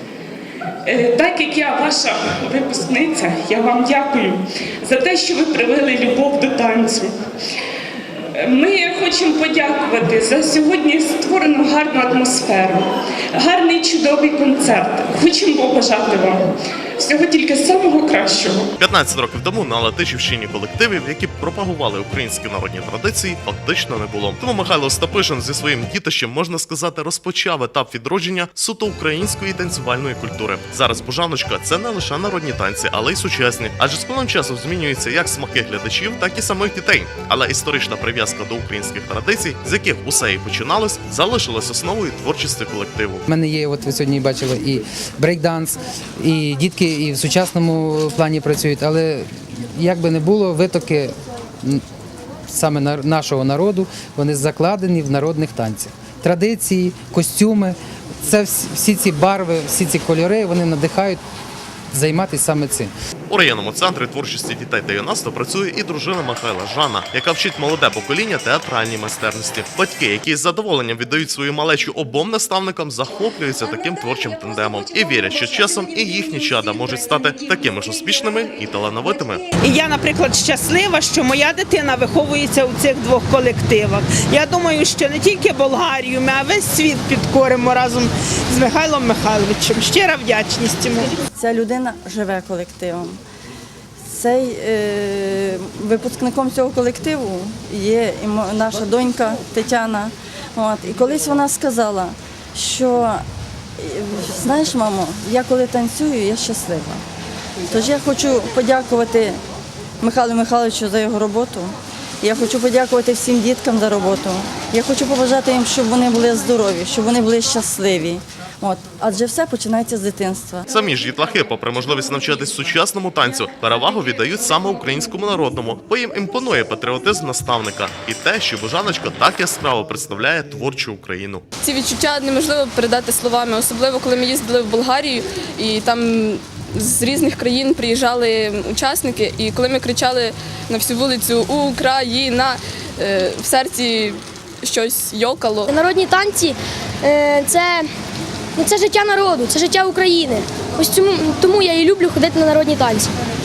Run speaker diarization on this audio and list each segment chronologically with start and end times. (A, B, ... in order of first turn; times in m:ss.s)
0:00.9-0:07.2 A
0:08.4-0:16.4 A
0:17.0-0:18.7 A
0:18.8-0:43.2 B
0:43.3-0:51.8 C
0:52.5-1:01.2 C
1:01.9-1:02.9 C
1:03.3-1:19.4 B
1:19.6-1:31.2 D
1:31.4-1:33.2 E
1:34.0-1:43.2 E
1:43.8-1:47.0 E
1:47.7-1:49.4 E
1:50.0-2:00.7 E
2:00.7-2:11.4 B
2:11.6-2:25.7 F
2:25.7-2:27.9 G
2:28.6-2:33.1 G